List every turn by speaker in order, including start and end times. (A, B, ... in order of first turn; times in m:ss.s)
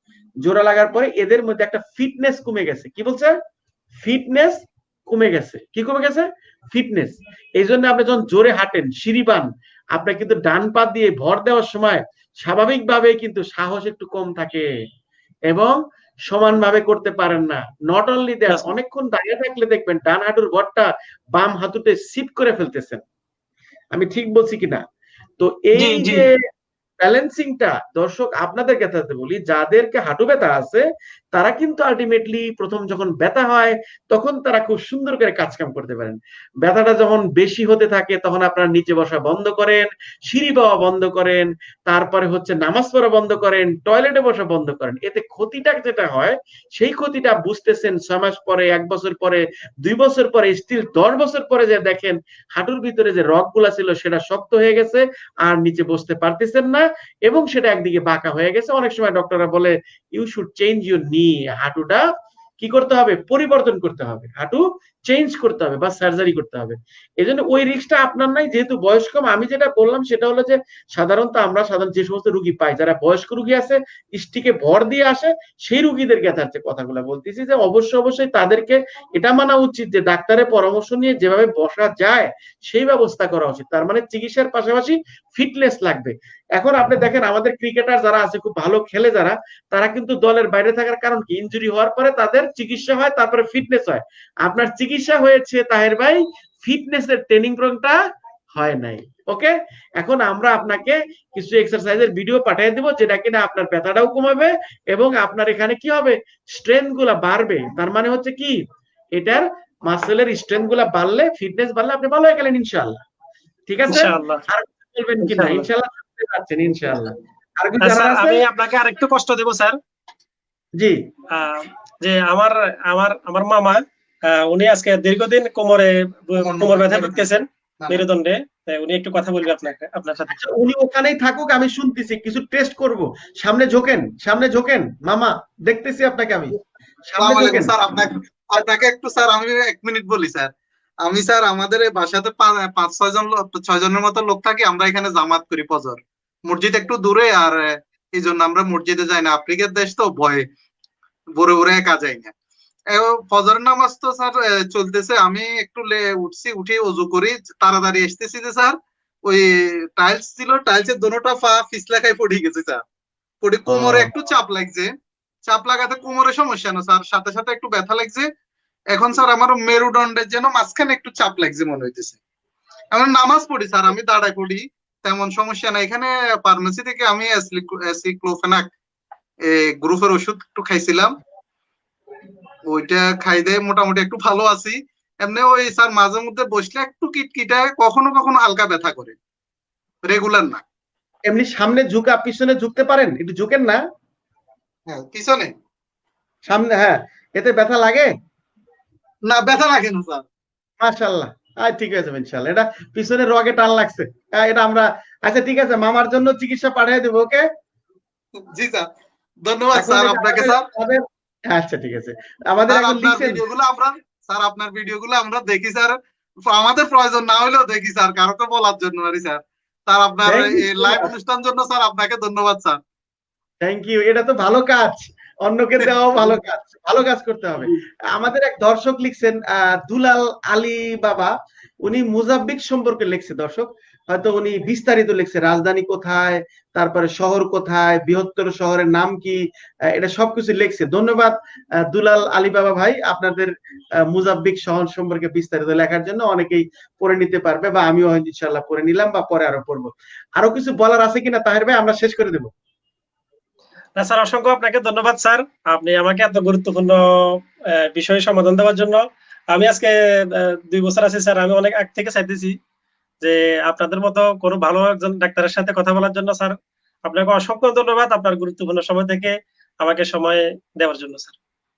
0:00.4-0:03.3 A
0:04.0-0:14.6 A
0:15.5-0:15.8 A
0:16.3-0:23.0 A
0:23.9-0:24.8 A
0:25.4-0:26.3 A
0:25.8-0:26.2 B
0:27.0-1:02.0 A
1:02.6-1:38.0 A
1:38.5-1:48.6 A
1:49.1-1:53.0 A
1:53.7-1:58.4 A
1:53.9-1:54.4 B
1:55.2-1:55.7 B
1:57.8-1:59.8 B
2:01.3-2:10.4 B
2:06.4-2:08.0 C
2:10.3-2:16.6 A
2:17.1-2:17.8 A
2:17.2-2:20.5 C
2:21.0-2:30.4 C
2:31.4-2:32.3 C
2:32.9-2:42.8 C
2:43.4-2:44.9 C
2:43.7-2:44.1 A
2:45.4-2:48.3 C
2:48.9-2:52.2 C
2:52.9-2:58.7 C
2:59.4-3:01.2 C
3:02.7-3:09.2 C
3:10.0-3:10.6 C
3:11.3-3:13.8 A
3:14.9-3:15.5 C
3:16.5-3:18.1 A
3:19.3-3:20.2 C
3:20.8-3:27.4 A
3:28.5-3:28.9 C
3:29.4-3:30.6 C
3:29.7-3:33.4 A
3:32.7-3:42.8 C
3:40.2-3:41.1 A
3:43.6-3:51.3 A
3:51.8-3:59.4 A
3:59.9-4:03.5 A
4:04.1-4:12.5 A
4:14.0-4:22.6 B
4:23.2-4:31.4 B